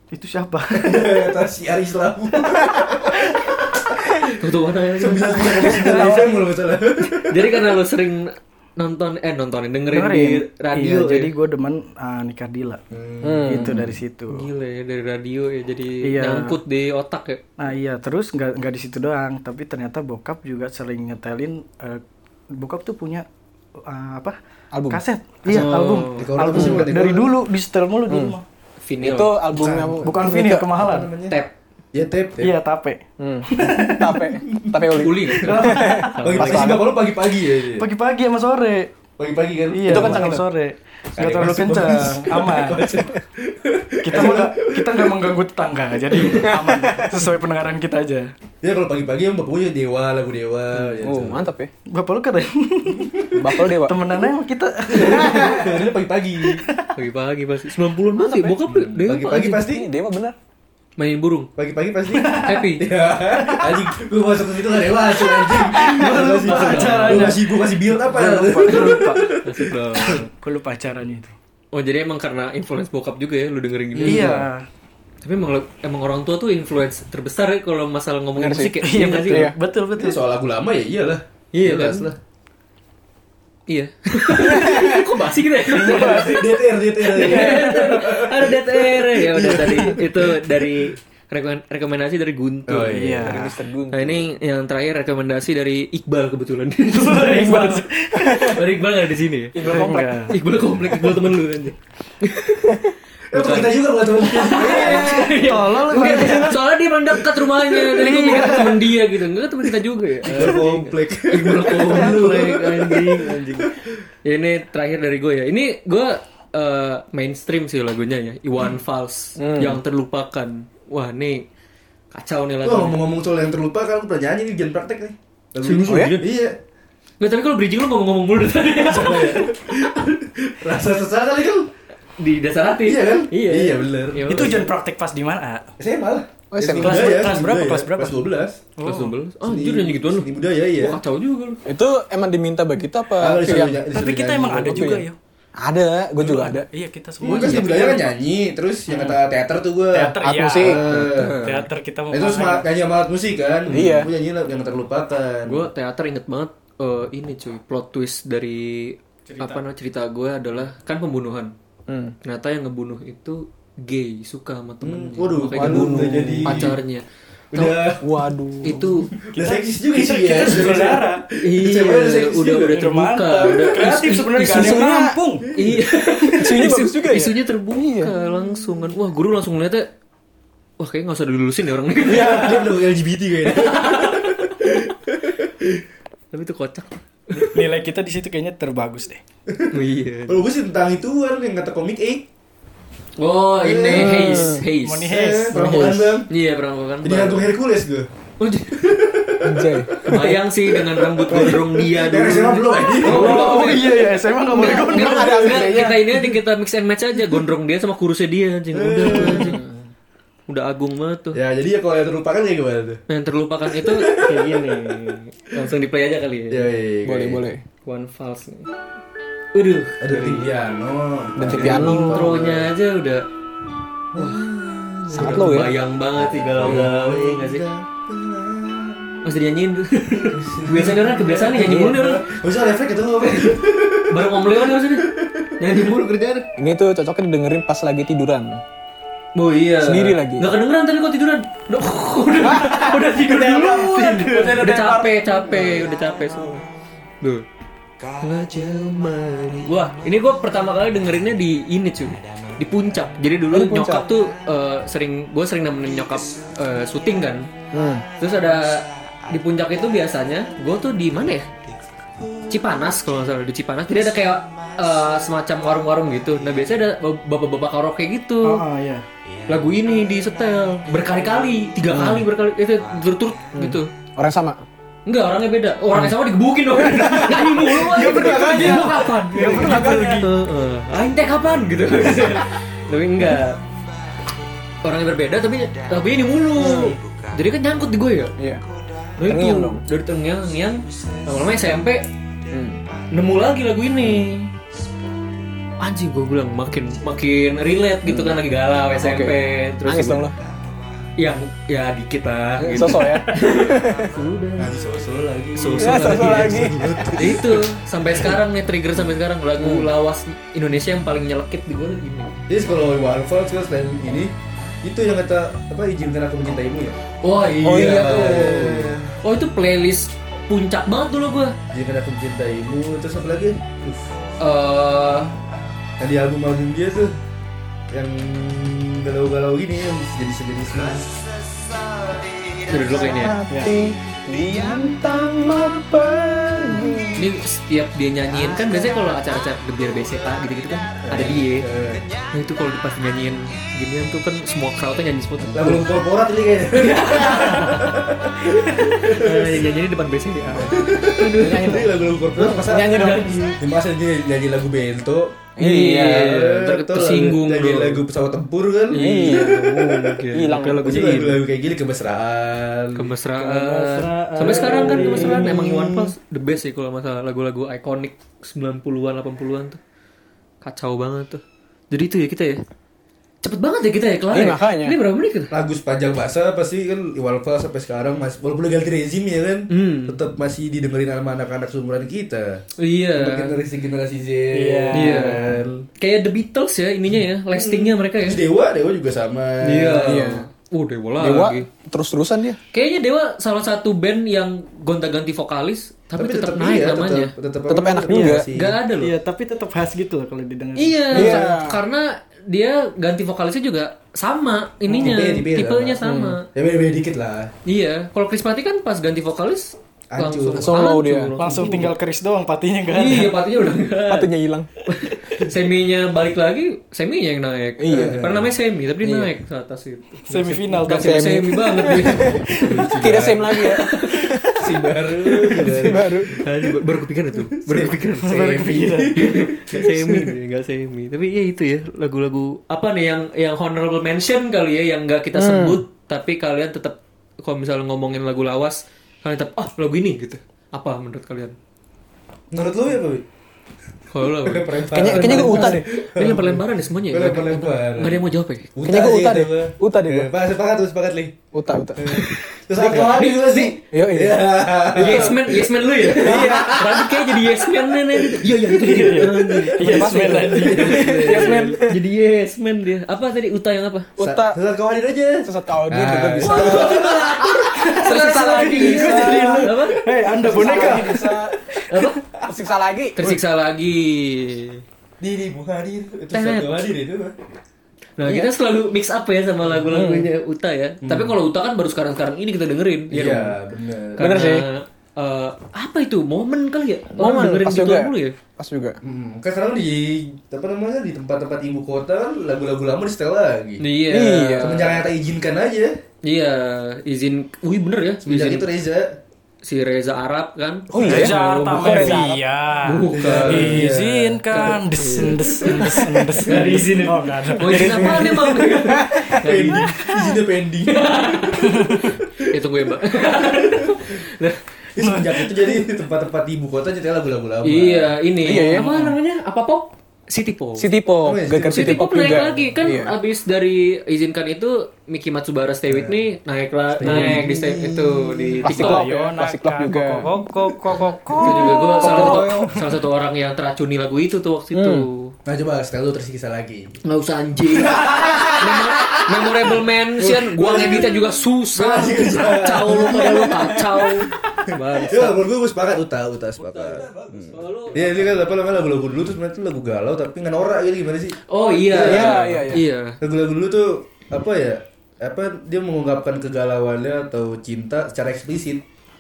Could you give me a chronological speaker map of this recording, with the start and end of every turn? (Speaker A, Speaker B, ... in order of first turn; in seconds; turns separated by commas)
Speaker A: 0.1-1.3, Speaker B: 0.7-4.3, Speaker C: 4.3-6.2, Speaker B: 5.0-7.8, Speaker A: 5.7-6.3, Speaker D: 5.9-6.2, Speaker C: 7.1-11.3, Speaker A: 9.9-12.8, Speaker B: 12.9-13.8, Speaker D: 13.2-13.9, Speaker A: 13.5-14.5, Speaker C: 14.3-17.4, Speaker A: 16.0-16.6, Speaker A: 17.6-23.3, Speaker A: 23.8-24.4, Speaker D: 24.7-25.0, Speaker A: 24.9-28.4, Speaker B: 25.5-27.3, Speaker C: 25.5-26.3, Speaker D: 26.6-26.8, Speaker D: 28.1-28.4, Speaker C: 28.8-29.4, Speaker D: 29.0-30.7, Speaker A: 29.6-31.1, Speaker B: 30.8-31.4, Speaker B: 31.9-32.5, Speaker A: 32.4-34.2, Speaker D: 33.2-37.0, Speaker B: 34.4-35.7, Speaker C: 34.9-36.8, Speaker A: 35.4-36.3, Speaker B: 36.2-37.9, Speaker A: 37.8-38.9, Speaker B: 39.2-40.3, Speaker A: 39.7-42.9, Speaker D: 39.9-40.4, Speaker B: 41.2-45.3, Speaker A: 44.0-48.3, Speaker B: 46.2-46.6, Speaker D: 46.3-47.1, Speaker B: 48.6-51.5, Speaker D: 50.8-51.7, Speaker A: 51.9-55.8, Speaker B: 52.9-53.4, Speaker D: 53.3-54.2, Speaker B: 54.9-56.6, Speaker A: 56.5-56.9, Speaker C: 57.0-59.6, Speaker D: 58.2-58.6, Speaker B: 58.7-59.9, Speaker D: 59.5-60.4, Speaker C: 61.0-61.5, Speaker B: 61.6-70.2, Speaker A: 62.1-62.6, Speaker C: 62.4-62.9, Speaker A: 63.4-63.9, Speaker A: 65.2-69.4, Speaker C: 65.9-67.4, Speaker C: 68.7-70.3, Speaker A: 70.1-71.3, Speaker C: 71.7-74.4, Speaker B: 74.0-74.5, Speaker A: 74.0-74.7, Speaker C: 75.2-79.5, Speaker D: 78.4-79.5, Speaker A: 78.8-80.2, Speaker B: 80.0-82.2, Speaker C: 81.5-82.1, Speaker C: 83.7-93.3, Speaker D: 84.3-85.1, Speaker A: 85.7-86.4, Speaker B: 85.8-90.6, Speaker A: 87.1-88.0, Speaker B: 92.7-93.5, Speaker A: 92.9-93.5, Speaker D: 93.2-94.3, Speaker C: 93.9-97.7, Speaker A: 96.9-98.6, Speaker D: 97.2-98.6, Speaker C: 98.3-113.7, Speaker D: 99.5-100.3, Speaker A: 99.6-100.3, Speaker B: 103.3-105.5, Speaker A: 104.5-106.6, Speaker A: 107.7-108.9, Speaker B: 110.2-113.7, Speaker C: 114.2-121.5, Speaker D: 119.4-119.8, Speaker C: 122.1-123.0, Speaker B: 122.6-126.6, Speaker C: 125.6-126.4, Speaker D: 125.9-126.2, Speaker C: 127.2-129.5, Speaker B: 128.8-131.7, Speaker C: 132.2-134.7, Speaker B: 132.8-134.6, Speaker A: 134.3-135.7, Speaker B: 135.8-138.6, Speaker D: 136.5-137.2, Speaker A: 136.8-139.2, Speaker C: 138.8-141.6, Speaker B: 139.4-141.0, Speaker D: 141.7-143.8, Speaker B: 143.2-144.9, Speaker A: 143.9-145.2, Speaker D: 144.6-145.1, Speaker D: 145.6-146.7, Speaker A: 146.2-148.1, Speaker B: 147.2-151.6, Speaker C: 147.3-147.6, Speaker A: 149.9-152.7, Speaker D: 150.2-151.3, Speaker C: 151.0-151.6, Speaker B: 152.1-155.7, Speaker D: 153.7-154.1, Speaker C: 155.5-161.5, Speaker A: 159.3-159.6, Speaker D: 161.9-162.2, Speaker C: 162.2-167.9, Speaker B: 164.8-166.8, Speaker D: 165.6-166.7, Speaker B: 167.5-168.1, Speaker D: 168.0-168.9, Speaker C: 168.6-169.1, Speaker B: 169.2-172.8, Speaker A: 169.4-171.3, Speaker C: 171.4-174.8, Speaker A: 172.7-175.5, Speaker D: 174.5-175.2, Speaker B: 175.5-175.9, Speaker C: 175.6-179.9, Speaker D: 176.3-178.1, Speaker C: 180.8-182.8, Speaker B: 182.0-185.8, Speaker D: 182.1-182.5, Speaker C: 183.4-184.5, Speaker C: 186.3-187.7, Speaker A: 187.3-189.2, Speaker B: 189.5-192.3, Speaker C: 189.7-190.4, Speaker C: 193.2-195.1, Speaker B: 193.6-194.5, Speaker D: 193.9-194.6, Speaker A: 194.8-195.6, Speaker B: 195.1-196.3, Speaker D: 195.5-196.2, Speaker C: 196.3-197.5, Speaker B: 197.0-198.1, Speaker C: 198.4-198.9, Speaker B: 198.7-200.4, Speaker D: 199.4-200.4, Speaker C: 200.0-209.6, Speaker B: 200.9-203.8, Speaker A: 203.0-205.7, Speaker D: 204.5-206.2, Speaker B: 208.7-209.6, Speaker D: 209.1-209.8, Speaker C: 210.5-211.4, Speaker B: 211.3-213.0, Speaker C: 213.1-216.7, Speaker B: 213.7-215.2, Speaker B: 216.5-217.4, Speaker D: 217.1-217.6, Speaker C: 217.8-218.7, Speaker C: 219.5-220.5, Speaker B: 220.0-222.7, Speaker D: 221.4-222.3, Speaker C: 221.5-223.2, Speaker B: 224.1-229.3, Speaker C: 224.2-224.5, Speaker C: 225.1-227.7, Speaker D: 225.1-225.7, Speaker C: 229.2-232.4, Speaker B: 230.2-235.8, Speaker C: 233.2-236.5, Speaker D: 236.6-238.6, Speaker C: 239.3-246.6, Speaker D: 239.8-240.5, Speaker D: 242.4-245.9, Speaker C: 248.2-257.5, Speaker D: 253.5-254.1, Speaker D: 257.7-258.1, Speaker C: 258.2-261.5, Speaker C: 262.5-268.6, Speaker A: 268.4-269.1, Speaker C: 269.5-273.9, Speaker D: 271.9-272.3, Speaker D: 273.6-274.6, Speaker C: 275.1-283.6, Speaker D: 276.7-280.2, Speaker A: 278.0-280.3, Speaker C: 284.8-288.3, Speaker D: 286.6-287.0, Speaker D: 288.4-288.6, Speaker C: 289.2-292.1, Speaker D: 289.2-289.8, Speaker D: 292.5-292.8, Speaker C: 293.1-294.5, Speaker C: 295.8-300.3, Speaker D: 298.1-298.4, Speaker D: 299.0-300.4, Speaker C: 301.2-304.8, Speaker D: 302.6-304.1, Speaker B: 304.6-308.4, Speaker C: 305.6-312.4, Speaker D: 305.8-307.1, Speaker D: 309.6-309.9, Speaker B: 312.5-317.0, Speaker C: 317.2-321.6, Speaker B: 317.6-319.1, Speaker D: 317.6-318.9, Speaker B: 321.7-324.1, Speaker C: 324.4-325.3, Speaker B: 326.0-327.1, Speaker B: 327.9-331.2, Speaker C: 332.7-333.4, Speaker D: 333.1-337.3, Speaker C: 337.1-341.7, Speaker B: 341.1-342.1, Speaker C: 342.3-345.9, Speaker D: 345.5-345.8, Speaker B: 345.5-349.6, Speaker C: 346.7-348.0, Speaker C: 348.8-351.9, Speaker B: 350.5-355.5, Speaker D: 351.4-353.4, Speaker C: 352.8-353.6, Speaker D: 355.6-356.4, Speaker C: 355.6-358.1, Speaker B: 356.1-360.2, Speaker C: 358.9-361.4, Speaker D: 358.9-359.6, Speaker D: 360.3-361.2, Speaker B: 360.8-363.1, Speaker C: 362.9-369.8, Speaker A: 363.4-365.6, Speaker B: 364.4-365.9, Speaker D: 365.2-365.8, Speaker C: 370.6-372.6, Speaker C: 373.4-375.5, Speaker D: 374.3-375.0, Speaker B: 375.5-382.6, Speaker C: 379.7-380.2, Speaker C: 382.8-383.6, Speaker B: 383.2-385.9, Speaker A: 384.5-385.4, Speaker C: 384.9-388.4, Speaker B: 387.5-390.4, Speaker C: 389.6-391.7, Speaker D: 390.0-390.5, Speaker D: 391.2-392.6, Speaker C: 392.7-397.3, Speaker B: 396.2-398.8, Speaker D: 397.7-398.5, Speaker A: 398.1-398.4, Speaker C: 398.5-399.1, Speaker A: 399.0-401.5, Speaker C: 400.8-406.5, Speaker D: 401.1-401.8, Speaker B: 404.9-406.0, Speaker D: 406.0-406.4, Speaker B: 406.5-407.5, Speaker C: 407.7-411.9, Speaker B: 410.1-410.8, Speaker D: 410.6-411.3, Speaker A: 411.4-413.4, Speaker C: 412.9-414.3, Speaker D: 414.1-414.7, Speaker C: 414.9-422.6, Speaker D: 417.8-418.2, Speaker B: 417.9-418.5, Speaker D: 419.0-419.3, Speaker A: 420.3-421.4, Speaker D: 420.9-424.6, Speaker B: 422.5-423.6, Speaker C: 423.5-424.4, Speaker B: 424.6-426.8, Speaker D: 425.6-426.4, Speaker C: 425.6-441.6, Speaker B: 427.6-430.3, Speaker A: 428.2-429.2, Speaker D: 435.3-435.8, Speaker B: 442.5-443.2, Speaker C: 444.1-448.7, Speaker B: 444.3-451.4, Speaker D: 444.9-445.9, Speaker D: 448.9-450.3, Speaker D: 451.5-453.3, Speaker B: 452.0-457.1, Speaker C: 452.1-453.7, Speaker D: 453.9-455.5, Speaker C: 454.9-464.1, Speaker D: 456.1-457.1, Speaker A: 458.6-461.1, Speaker D: 459.8-462.0, Speaker B: 460.5-461.8, Speaker D: 464.2-464.6, Speaker B: 464.2-467.6, Speaker D: 465.4-469.7, Speaker C: 466.4-470.0, Speaker A: 467.7-472.0, Speaker B: 468.3-469.4, Speaker D: 470.4-471.6, Speaker B: 470.5-471.2, Speaker C: 471.9-472.2, Speaker D: 472.4-473.4, Speaker C: 473.2-474.8, Speaker B: 475.2-477.4, Speaker C: 476.3-476.9, Speaker C: 478.2-483.6, Speaker D: 478.2-478.5, Speaker D: 479.9-480.3, Speaker B: 481.0-481.4, Speaker B: 483.1-484.4, Speaker C: 484.2-488.4, Speaker D: 484.2-484.6, Speaker D: 487.2-489.0, Speaker B: 489.0-493.8, Speaker C: 493.8-495.1, Speaker D: 494.1-494.8, Speaker B: 494.6-496.0, Speaker C: 496.2-498.7, Speaker B: 498.2-499.2, Speaker C: 499.6-502.2, Speaker D: 500.9-502.4, Speaker A: 501.0-508.1, Speaker C: 502.8-503.9, Speaker B: 503.1-504.6, Speaker C: 504.5-510.0, Speaker B: 505.1-505.9, Speaker D: 507.6-509.3, Speaker B: 507.9-508.6, Speaker B: 509.1-512.4, Speaker C: 510.9-514.6, Speaker A: 511.6-512.1, Speaker B: 513.5-514.1, Speaker B: 515.0-519.0, Speaker A: 515.0-515.7, Speaker C: 517.6-520.9, Speaker D: 518.4-519.1, Speaker D: 520.8-523.1, Speaker B: 521.2-522.0, Speaker C: 521.7-529.1, Speaker B: 525.9-526.2, Speaker B: 527.0-528.7, Speaker D: 527.0-527.5, Speaker D: 528.6-530.3, Speaker A: 528.7-532.8, Speaker D: 530.9-532.8, Speaker C: 531.4-535.4, Speaker D: 534.7-535.1, Speaker B: 535.5-537.0, Speaker C: 537.0-545.4, Speaker B: 537.7-552.6, Speaker D: 543.3-543.6, Speaker C: 547.0-548.6, Speaker C: 551.5-553.2, Speaker D: 552.0-552.8, Speaker B: 553.2-558.9